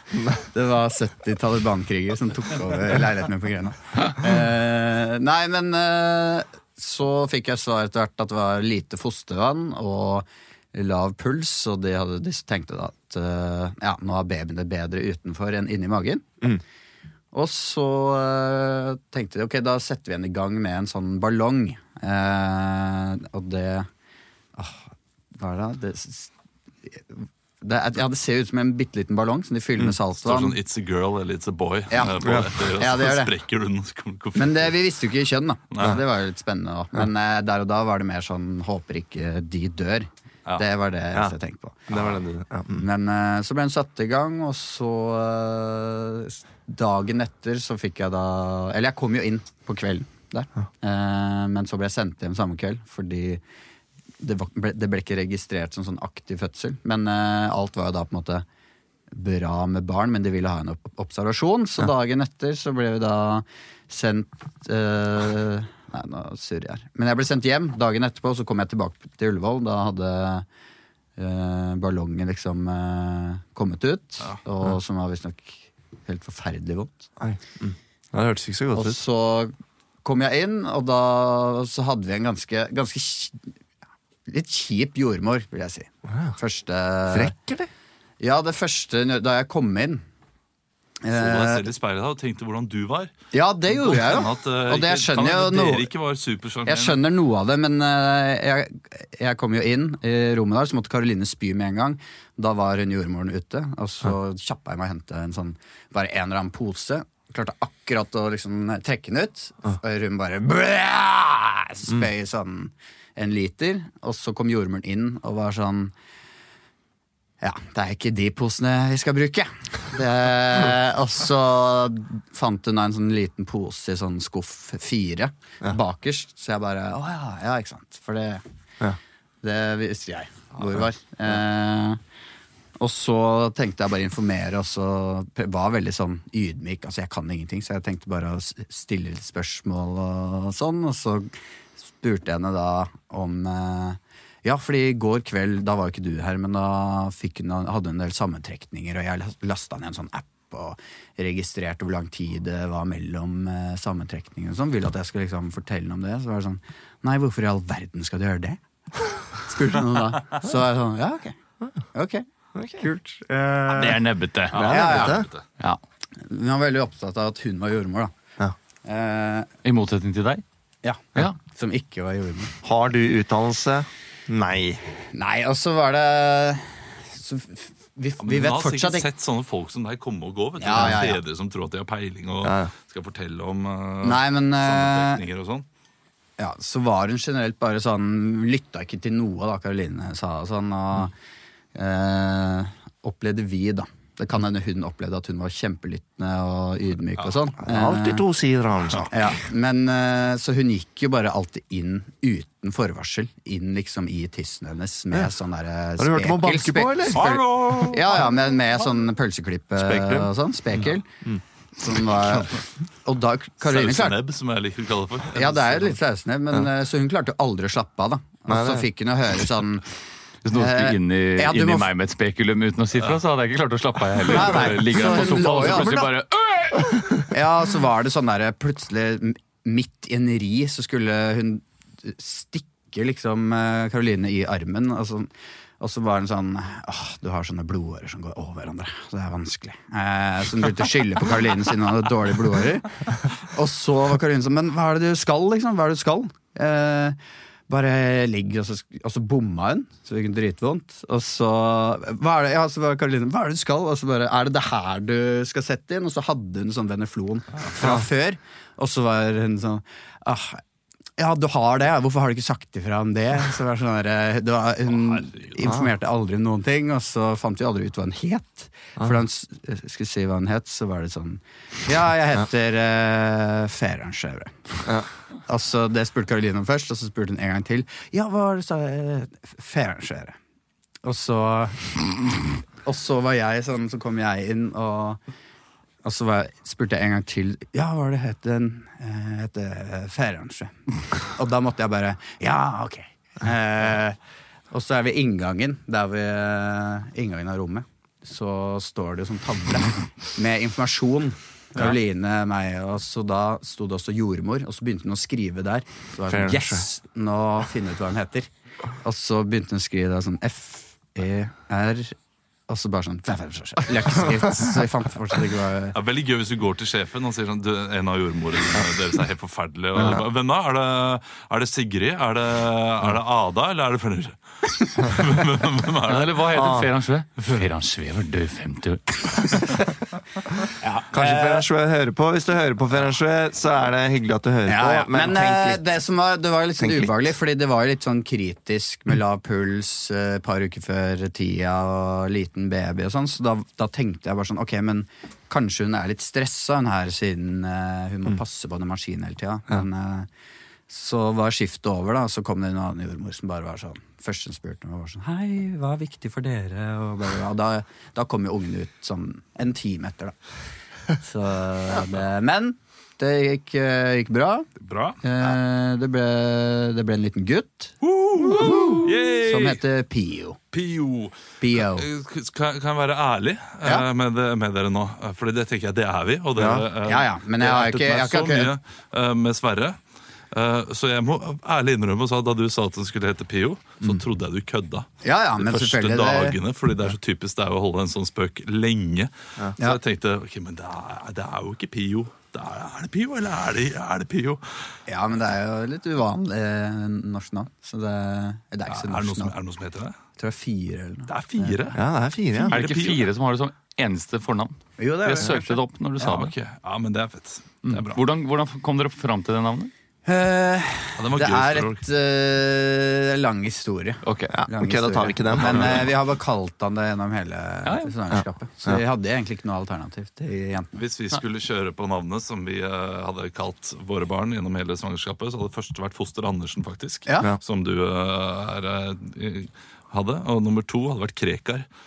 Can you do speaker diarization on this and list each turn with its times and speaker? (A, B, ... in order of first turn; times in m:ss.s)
0:00.5-0:16.4 A
0:17.3-0:23.9 A
0:24.6-0:24.8 A
0:25.4-0:26.3 A
0:26.8-0:30.6 A
0:30.2-0:34.7 B
0:31.9-0:33.3 A
0:32.2-0:32.5 C
0:34.4-0:42.2 A
0:35.7-0:36.0 B
0:41.9-0:42.8 C
0:42.8-0:53.4 A
0:54.2-0:58.4 A
0:59.1-1:10.4 A
1:11.2-1:17.1 A
1:17.2-1:19.0 C
1:18.7-1:19.5 A
1:20.0-1:23.4 A
1:24.3-1:27.3 A
1:26.1-1:26.3 C
1:27.1-1:27.7 C
1:28.2-1:30.0 A
1:31.0-1:31.6 A
1:31.1-1:33.1 B
1:33.3-1:35.9 A
1:33.7-1:37.0 B
1:36.6-1:55.9 A
1:57.4-2:08.4 A
2:09.4-2:12.0 A
2:12.8-2:21.3 A
2:21.9-2:38.6 A
2:39.4-2:41.3 A
2:41.9-2:42.2 A
2:42.5-2:42.8 C
2:42.8-2:44.1 A
2:43.7-2:44.8 D
2:44.5-2:45.3 C
2:44.5-2:45.4 B
2:44.6-2:45.2 A
2:46.2-2:48.1 A
2:48.8-2:49.5 A
2:49.6-2:50.4 D
2:50.8-2:52.5 A
2:52.6-2:54.8 C
2:55.1-2:59.1 A
2:58.2-3:05.6 B
3:00.6-3:01.2 A
3:00.7-3:01.0 C
3:02.4-3:02.7 C
3:04.0-3:05.2 A
3:06.4-3:11.1 A
3:11.7-3:18.2 A
3:17.6-3:19.1 C
3:19.1-3:31.1 A
3:26.0-3:28.0 C
3:27.2-3:27.8 B
3:29.8-3:30.3 C
3:31.8-3:34.2 A
3:33.6-3:36.0 B
3:35.3-3:39.8 A
3:38.5-3:38.9 C
3:40.4-3:47.2 D
3:40.5-3:41.9 A
3:44.3-3:46.1 A
3:45.1-3:46.1 C
3:47.3-3:55.3 A
3:55.8-4:07.2 A
4:07.7-4:20.6 A
4:17.8-4:18.0 C
4:21.2-4:34.9 A
4:24.9-4:25.6 B
4:35.5-4:40.4 A
4:41.0-4:45.2 A
4:46.0-4:54.2 A
4:54.7-5:08.5 A
5:06.3-5:06.8 C
5:09.0-5:12.2 A
5:12.7-5:16.0 A
5:15.9-5:26.7 B
5:19.9-5:20.2 C
5:26.1-5:29.9 D
5:26.5-5:26.9 C
5:30.8-5:31.6 A
5:31.1-5:35.8 C
5:34.7-5:50.3 A
5:36.8-5:37.3 C
5:50.9-6:00.4 A
6:01.2-6:04.7 A
6:04.8-6:05.2 B
6:05.2-6:10.6 A
6:08.0-6:09.8 B
6:08.4-6:09.1 C
6:10.7-6:20.0 B
6:11.6-6:12.0 A
6:16.6-6:16.9 C
6:17.0-6:18.7 A
6:20.5-6:25.1 B
6:25.2-6:26.6 A
6:25.6-6:34.6 B
6:35.1-6:39.5 A
6:38.9-6:40.2 B
6:40.4-6:41.8 A
6:41.3-6:42.0 B
6:41.9-6:42.8 C
6:42.5-6:43.3 B
6:42.7-6:46.5 D
6:45.0-6:45.8 A
6:46.2-6:48.2 B
6:47.8-6:49.9 D
6:50.2-7:00.9 A
6:51.2-6:52.0 B
6:54.2-6:54.5 D
6:54.5-6:56.1 C
6:57.8-6:58.1 D
6:58.3-6:59.0 C
7:00.9-7:11.8 B